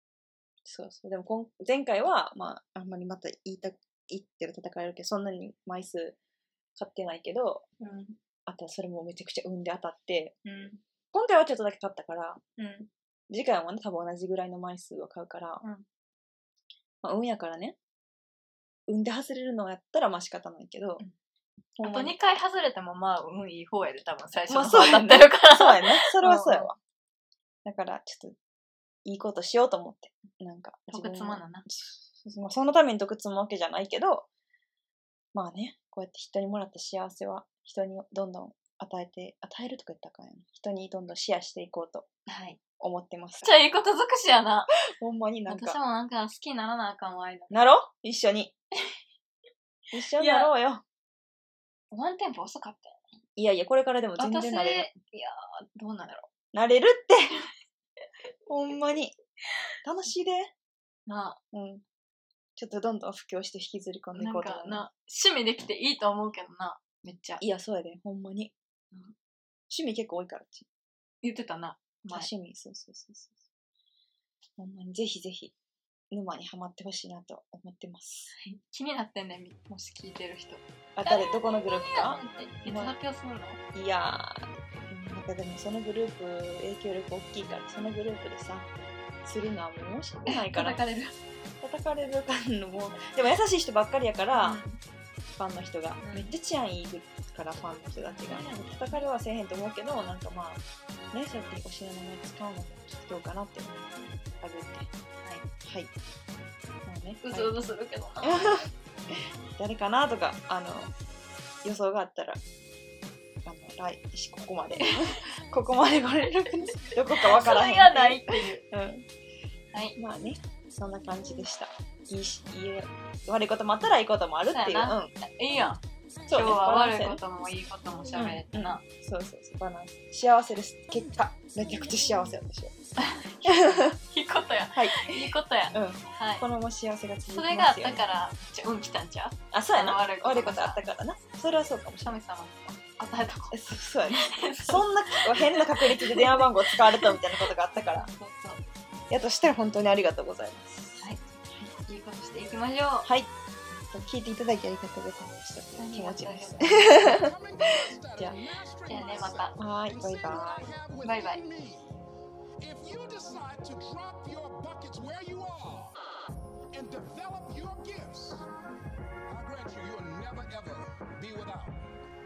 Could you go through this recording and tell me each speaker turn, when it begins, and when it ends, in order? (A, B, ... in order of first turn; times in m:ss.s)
0:00.6-0:06.2 A
0:06.8-0:07.6 A
0:07.8-0:08.2 B
0:08.4-0:10.4 A
0:10.4-0:10.8 B
0:11.1-0:12.4 A
0:12.6-0:12.9 B
0:13.3-0:15.6 A
0:17.0-0:17.8 A
0:18.9-0:21.0 A
0:21.8-0:22.1 A
0:21.8-0:26.7 B
0:24.5-0:26.8 A
0:27.6-0:28.4 A
0:29.0-0:34.3 A
0:30.9-0:31.6 B
0:35.3-0:42.1 A
0:42.3-0:42.6 B
0:42.8-0:43.6 A
0:43.4-0:44.7 B
0:44.9-0:45.8 A
0:45.5-0:47.5 B
0:47.5-0:48.5 A
0:49.9-0:50.8 A
0:50.2-0:50.5 B
0:51.9-0:53.0 B
0:53.4-0:54.9 A
0:54.2-0:56.3 B
0:56.5-0:57.3 A
0:58.5-0:59.2 A
0:59.8-1:00.5 A
1:01.1-1:01.4 B
1:01.5-1:01.8 A
1:02.6-1:04.8 A
1:04.1-1:07.4 B
1:07.4-1:08.5 A
1:09.7-1:10.7 A
1:11.2-1:12.3 B
1:12.1-1:13.4 A
1:14.6-1:15.5 A
1:16.1-1:18.3 A
1:18.4-1:23.6 B
1:21.0-1:22.9 A
1:23.7-1:28.7 A
1:29.2-1:30.8 A
1:30.3-1:31.2 B
1:31.6-1:34.6 A
1:34.4-1:34.8 B
1:35.4-1:44.9 A
1:36.0-1:36.3 B
1:38.0-1:39.0 B
1:45.6-1:45.9 A
1:46.8-1:47.6 A
1:47.2-1:48.5 B
1:48.2-1:50.9 A
1:51.6-1:52.4 A
1:53.4-1:59.0 A
1:56.9-1:58.6 B
1:59.7-2:00.0 B
2:00.0-2:05.1 A
2:04.5-2:05.8 B
2:06.3-2:07.2 A
2:06.3-2:08.8 B
2:08.1-2:12.7 A
2:13.0-2:16.4 B
2:13.4-2:13.9 A
2:14.7-2:18.0 A
2:17.3-2:20.8 B
2:19.5-2:22.2 A
2:22.0-2:23.6 B
2:23.5-2:28.1 A
2:24.2-2:27.2 B
2:27.8-2:28.6 B
2:29.1-2:31.7 A
2:31.8-2:33.1 B
2:33.0-2:33.3 A
2:33.9-2:37.3 A
2:35.8-2:36.8 B
2:36.6-2:42.0 C
2:38.9-2:39.6 B
2:39.6-2:40.7 A
2:41.0-2:41.4 B
2:42.6-2:45.9 C
2:46.7-2:48.4 C
2:49.3-2:51.8 C